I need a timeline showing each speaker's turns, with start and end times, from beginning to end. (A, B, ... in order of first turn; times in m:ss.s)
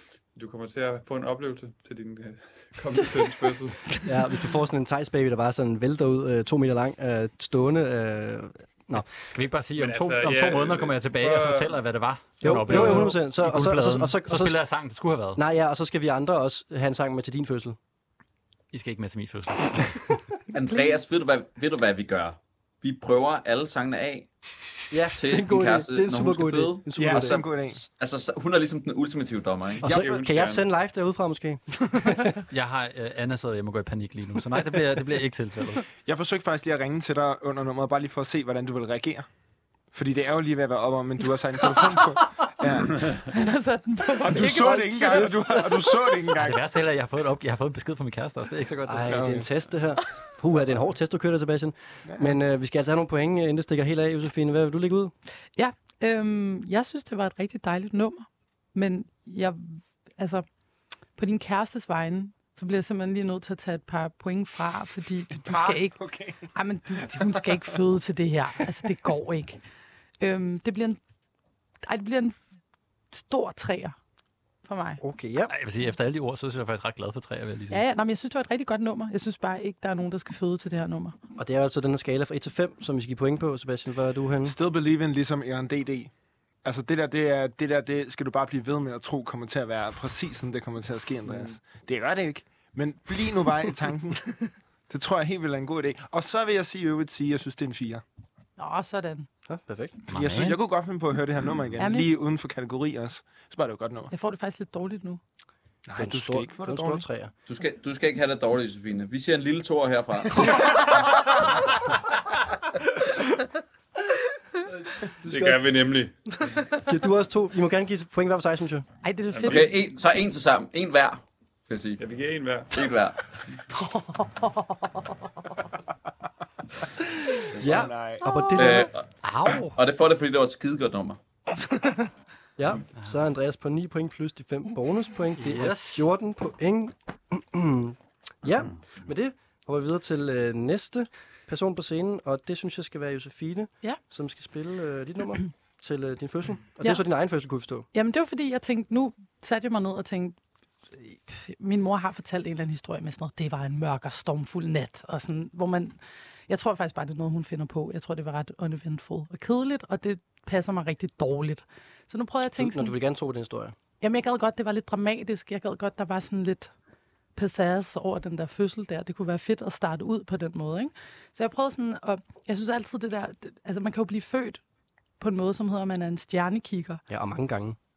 0:00.3-0:03.9 A
0:04.0-0:09.0 B
0:09.3-0:15.4 C
0:09.8-0:11.8 A
0:12.4-0:14.6 B
0:12.7-0:13.1 D
0:15.4-0:17.8 B
0:18.7-0:20.1 C
0:20.5-0:24.3 E
0:24.9-0:27.4 B
0:25.1-0:30.1 E
0:26.9-0:27.8 F
0:29.8-0:32.4 B
0:29.8-0:30.7 A
0:32.5-0:35.8 C
0:36.0-0:39.2 F
0:39.9-0:43.2 F
0:43.3-0:45.3 D
0:44.2-0:46.6 F
0:46.4-0:49.2 C
0:48.8-0:55.1 B
0:49.1-0:49.5 F
0:52.0-0:52.3 F
0:55.6-1:00.4 D
1:01.2-1:09.6 D
1:05.3-1:06.4 F
1:07.0-1:07.4 F
1:10.2-1:11.0 D
1:11.8-1:12.4 D
1:13.1-1:14.0 D
1:14.6-1:15.0 D
1:15.0-1:15.5 B
1:15.5-1:17.8 C
1:17.7-1:21.2 D
1:21.4-1:24.6 B
1:24.4-1:26.1 F
1:26.6-1:38.0 F
1:31.3-1:31.6 A
1:38.6-1:39.3 D
1:39.5-1:40.0 B
1:40.1-1:44.1 F
1:40.1-1:40.6 C
1:41.8-1:42.1 D
1:44.1-1:45.2 D
1:45.8-1:47.0 F
1:45.9-1:47.3 B
1:47.5-1:51.2 E
1:55.2-1:55.7 B
1:55.2-1:56.2 A
1:56.8-1:58.8 B
1:59.0-1:59.7 D
1:59.3-1:59.8 A
1:59.4-2:02.0 E
2:02.0-2:02.9 A
2:02.7-2:03.2 E
2:03.7-2:05.2 D
2:07.6-2:08.2 F
2:07.6-2:07.9 E
2:07.6-2:08.9 B
2:08.2-2:08.8 D
2:08.5-2:09.0 E
2:09.2-2:09.7 C
2:09.7-2:11.2 E
2:12.6-2:27.9 B
2:15.4-2:16.1 C
2:27.9-2:30.4 D
2:30.9-2:42.9 D
2:42.6-2:43.7 B
2:44.0-2:46.7 D
2:47.3-2:54.6 D
2:55.2-2:57.0 D
2:57.1-2:57.8 B